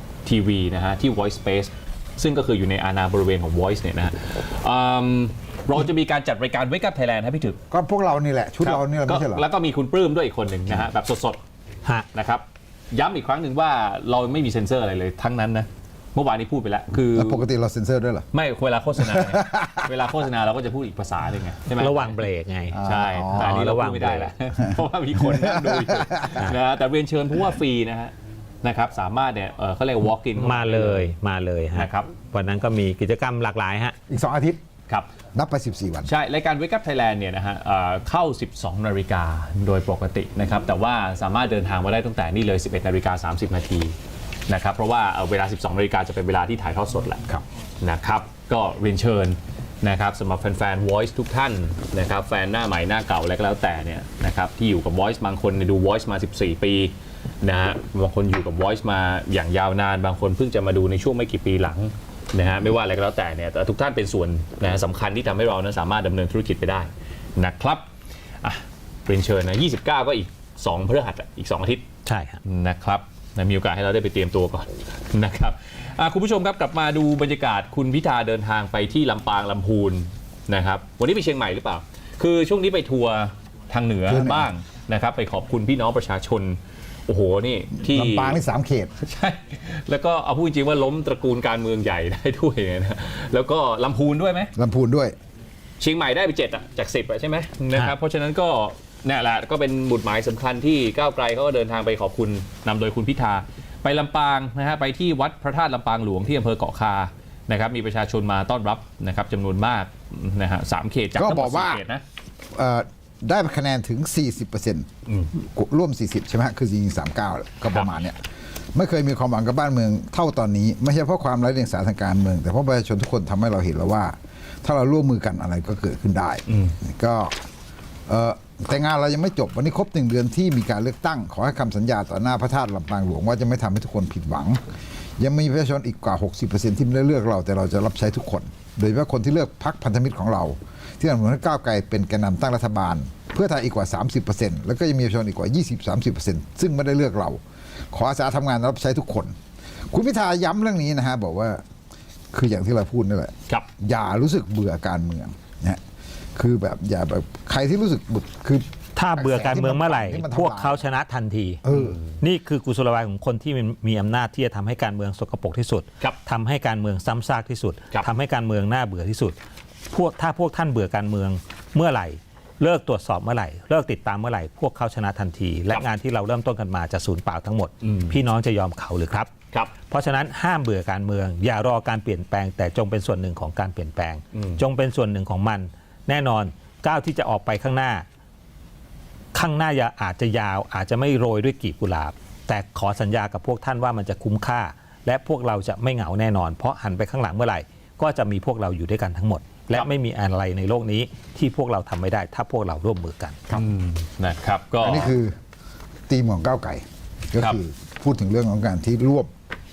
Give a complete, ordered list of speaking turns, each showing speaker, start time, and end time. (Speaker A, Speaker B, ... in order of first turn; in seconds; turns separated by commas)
Speaker A: 0.2-7.6, Speaker B: 7.7-9.5, Speaker A: 8.6-11.4, Speaker A: 12.1-17.4, Speaker B: 17.1-18.3, Speaker A: 18.3-22.2, Speaker B: 19.0-20.0, Speaker C: 21.8-24.3, Speaker B: 22.7-23.6, Speaker A: 22.8-31.1, Speaker B: 25.2-26.4, Speaker C: 30.4-34.0, Speaker A: 31.8-32.1, Speaker B: 34.1-34.6, Speaker B: 35.4-36.1, Speaker A: 36.1-44.0, Speaker A: 44.5-67.9, Speaker A: 68.4-71.9, Speaker C: 72.0-72.4, Speaker A: 72.4-88.4, Speaker B: 84.1-84.5, Speaker B: 87.8-88.9, Speaker A: 89.0-94.5, Speaker B: 94.5-95.2, Speaker A: 95.8-112.0, Speaker B: 111.2-111.8, Speaker B: 112.5-118.2, Speaker B: 118.8-127.4, Speaker A: 126.5-126.8, Speaker B: 128.1-134.6, Speaker B: 135.2-147.4, Speaker B: 147.9-149.3, Speaker B: 149.9-151.6, Speaker B: 152.3-155.8, Speaker B: 156.4-160.8, Speaker C: 159.0-161.6, Speaker B: 161.6-162.0, Speaker A: 161.7-162.2, Speaker C: 162.2-169.4, Speaker C: 169.9-179.3, Speaker A: 177.8-178.2, Speaker C: 179.9-188.1, Speaker A: 184.3-184.6, Speaker C: 189.3-203.5, Speaker A: 203.5-205.2, Speaker B: 204.8-205.4, Speaker B: 206.1-209.3